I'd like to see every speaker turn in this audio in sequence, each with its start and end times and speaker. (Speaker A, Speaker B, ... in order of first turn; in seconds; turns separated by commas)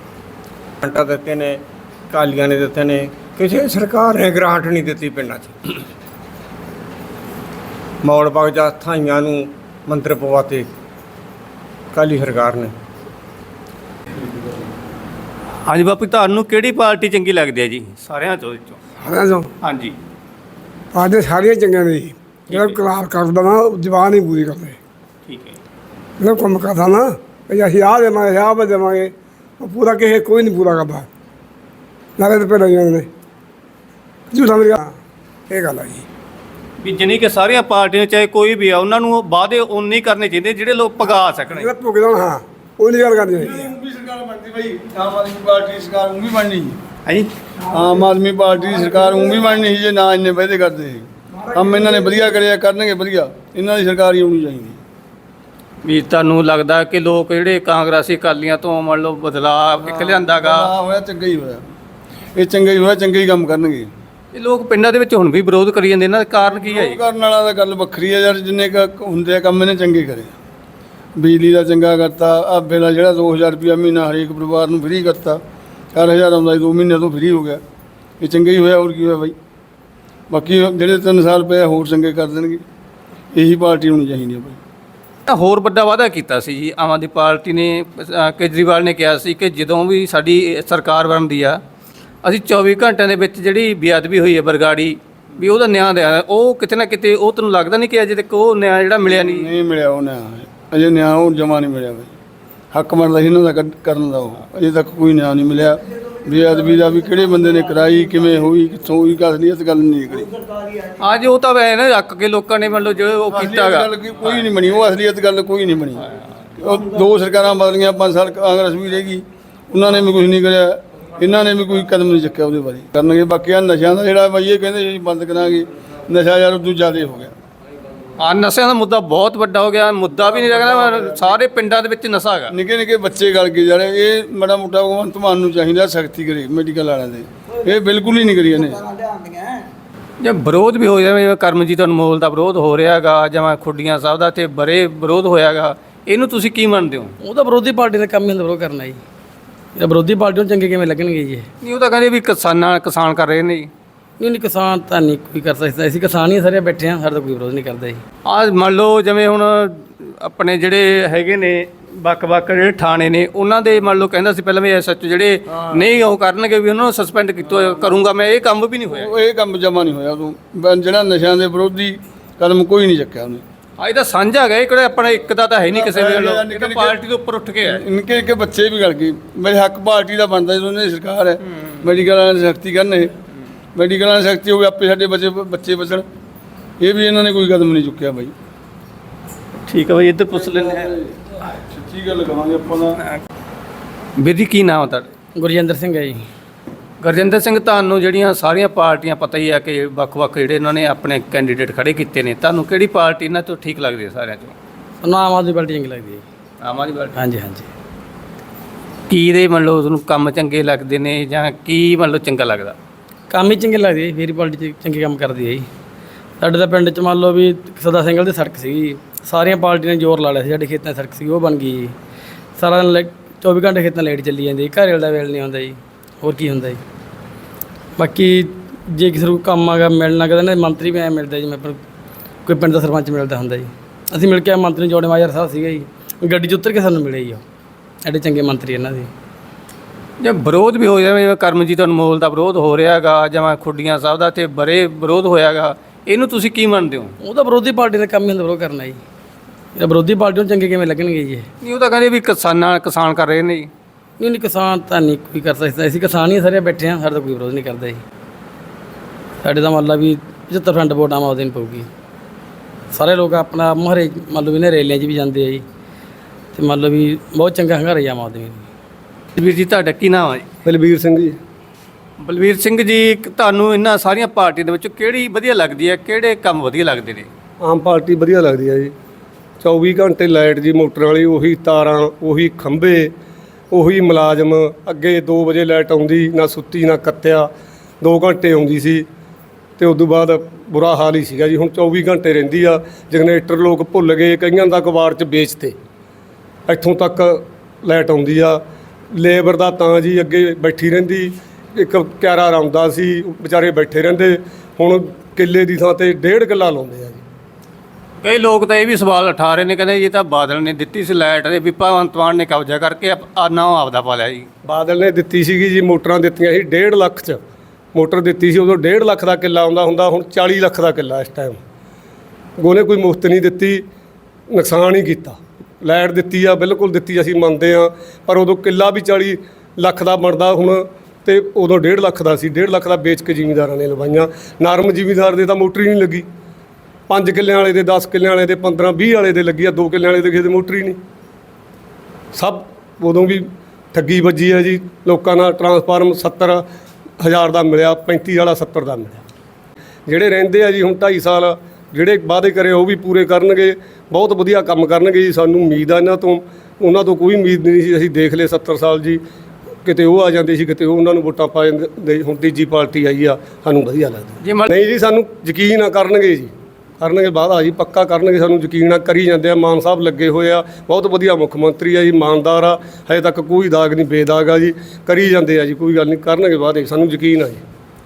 Speaker A: 0.8-5.8, Speaker A: 8.0-10.7, Speaker A: 11.9-12.7, Speaker B: 15.7-18.8, Speaker C: 19.0-19.5, Speaker B: 19.6-19.9, Speaker C: 20.9-24.8, Speaker B: 22.5-22.8, Speaker B: 25.3-25.6, Speaker C: 26.2-31.1, Speaker C: 32.2-33.1, Speaker C: 34.3-35.0, Speaker C: 35.5-36.0, Speaker B: 36.8-41.7, Speaker C: 41.5-43.7, Speaker D: 43.4-46.8, Speaker D: 47.7-54.8, Speaker B: 55.8-60.7, Speaker D: 59.9-61.6, Speaker D: 62.4-63.9, Speaker B: 64.3-67.0, Speaker D: 66.4-70.3, Speaker D: 71.2-75.4, Speaker D: 75.9-77.6, Speaker D: 78.2-79.3, Speaker D: 80.3-82.6, Speaker D: 83.3-84.6, Speaker B: 85.3-91.6, Speaker B: 92.2-99.5, Speaker D: 99.1-102.1, Speaker D: 102.7-110.3, Speaker B: 111.0-114.4, Speaker D: 113.3-116.1, Speaker D: 116.6-127.3, Speaker B: 128.2-132.5, Speaker D: 132.5-138.9, Speaker B: 140.2-147.1, Speaker E: 147.2-149.0, Speaker E: 149.8-151.5, Speaker B: 151.6-153.7, Speaker E: 154.2-158.0, Speaker B: 158.2-169.1, Speaker D: 168.9-173.4, Speaker B: 173.8-177.8, Speaker D: 175.7-177.0, Speaker D: 177.6-183.1, Speaker D: 183.8-186.1, Speaker D: 186.8-188.3, Speaker B: 189.7-190.9, Speaker D: 190.4-193.0, Speaker B: 194.2-195.1, Speaker E: 195.3-196.2, Speaker B: 197.0-204.5, Speaker E: 205.0-206.2, Speaker B: 206.6-207.2, Speaker E: 207.1-207.7, Speaker B: 209.1-212.8, Speaker E: 213.3-215.7, Speaker E: 216.4-221.9, Speaker E: 222.6-226.8, Speaker E: 228.0-231.8, Speaker E: 232.4-237.4, Speaker E: 238.0-239.1, Speaker B: 240.2-247.1, Speaker E: 247.2-249.0, Speaker E: 249.8-251.5, Speaker B: 251.6-253.7, Speaker E: 254.2-258.0, Speaker E: 259.4-261.9, Speaker E: 262.9-265.6, Speaker E: 266.5-268.6, Speaker B: 269.4-270.5, Speaker F: 270.6-271.4, Speaker B: 272.2-277.3, Speaker F: 277.6-278.9, Speaker F: 279.6-283.1, Speaker F: 283.7-287.5, Speaker F: 288.0-289.1, Speaker F: 289.8-295.8, Speaker F: 296.7-298.6, Speaker F: 299.1-307.2, Speaker B: 308.2-314.5, Speaker F: 314.6-317.4, Speaker F: 317.9-321.6, Speaker F: 322.6-323.8, Speaker F: 324.5-336.3, Speaker F: 337.1-341.0, Speaker F: 342.3-346.6, Speaker F: 347.2-349.2, Speaker F: 350.1-359.2, Speaker F: 359.8-377.6, Speaker B: 364.4-364.7